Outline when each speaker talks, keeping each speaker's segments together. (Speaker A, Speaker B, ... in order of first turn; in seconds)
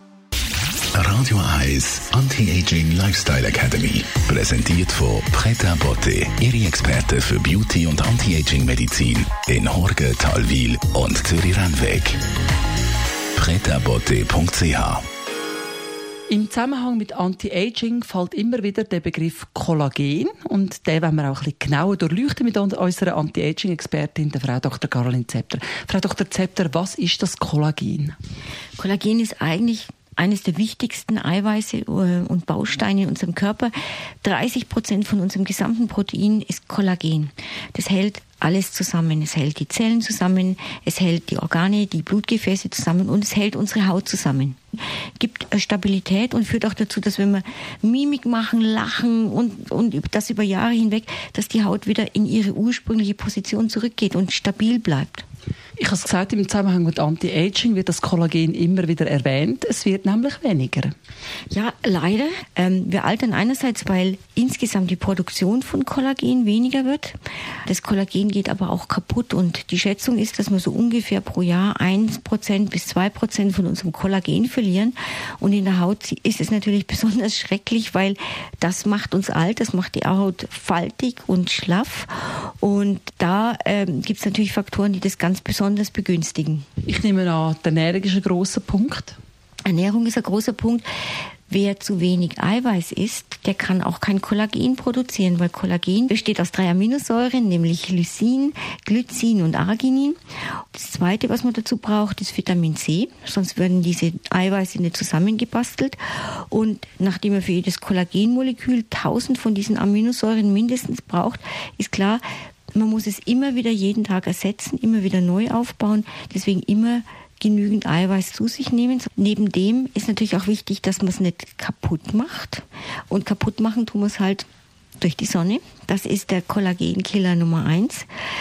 Speaker A: 1.0-12.2, 13.4-15.0
Speaker B: 16.3-28.2, 55.8-60.9, 86.8-89.2
Speaker C: 28.8-55.2, 61.5-86.7, 89.7-90.9, 91.5-124.5, 125.0-128.1